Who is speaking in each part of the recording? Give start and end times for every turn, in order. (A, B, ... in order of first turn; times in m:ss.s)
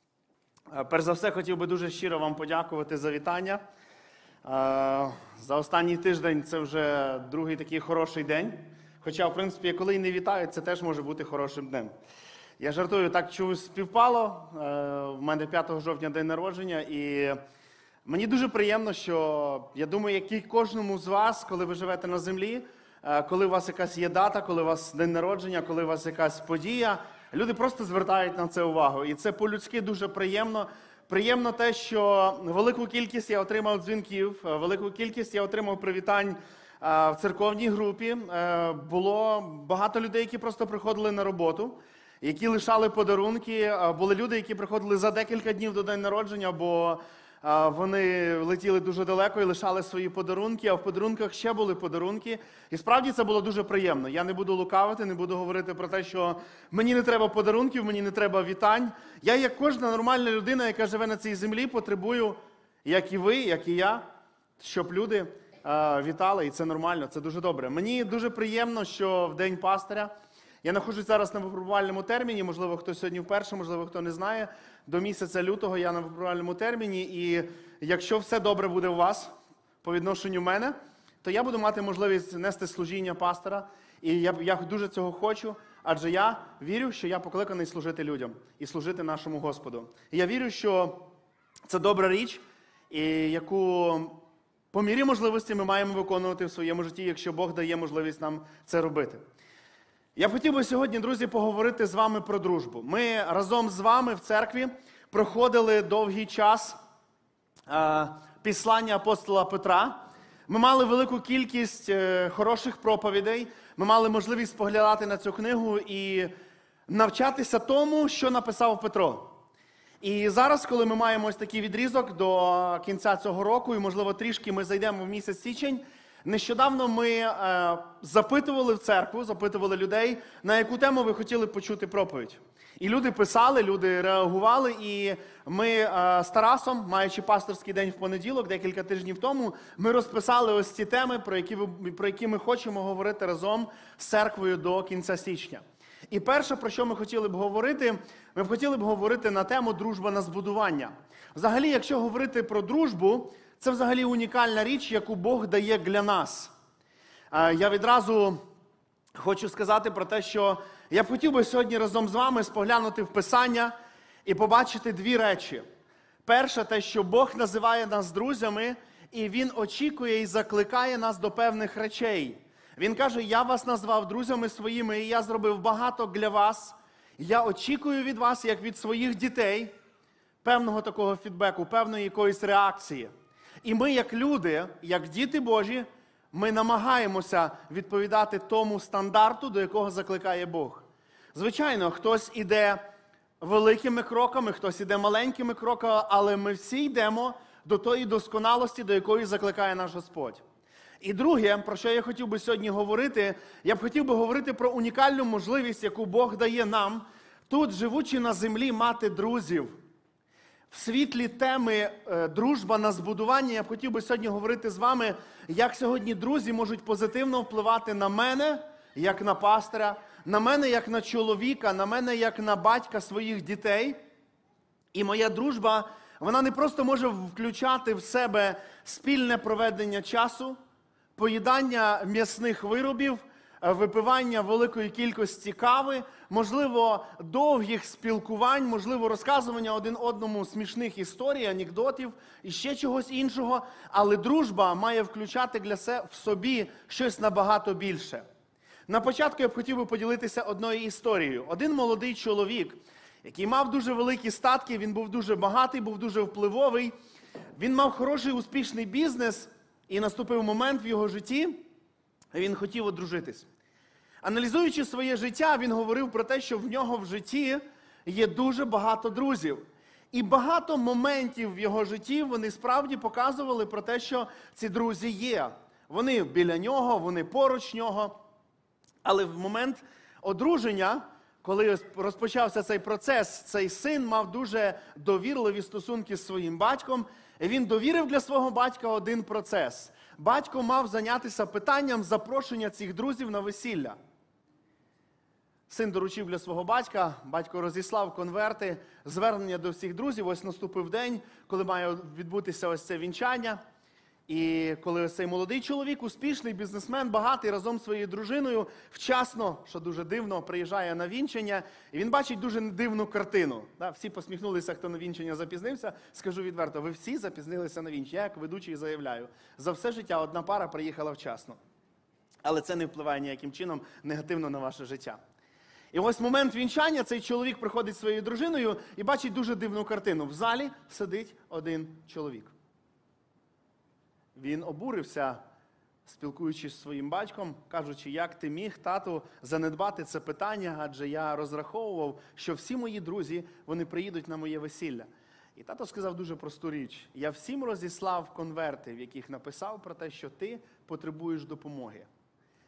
0:00.7-0:03.6 A
0:04.4-0:11.9 A
0:12.6-0:17.4 A
0:18.0-1:04.1 A
1:04.6-1:10.1 A
1:10.6-1:19.3 A
1:19.8-1:31.1 A
1:31.7-1:34.2 A
1:34.7-1:39.2 A
1:40.2-1:46.8 A
1:47.7-1:56.3 A
1:56.9-1:59.3 A
2:00.0-2:36.5 A
2:37.3-2:38.4 A
2:39.1-2:43.7 A
2:44.2-2:45.6 A
2:46.2-2:59.7 A
3:00.4-3:03.1 A
3:03.6-3:12.8 A
3:13.4-3:20.4 A
3:21.0-3:29.8 A
3:30.7-3:44.0 A
3:44.9-3:50.6 A
3:51.2-4:08.2 A
4:08.9-4:16.9 A
4:17.6-4:21.6 A
4:22.3-4:23.5 A
4:24.2-4:38.2 A
4:39.0-4:54.0 A
4:55.7-5:03.6 A
5:04.3-5:21.6 A
5:22.4-5:25.2 A
5:25.9-5:32.5 A
5:34.3-5:35.4 A
5:36.0-5:52.1 A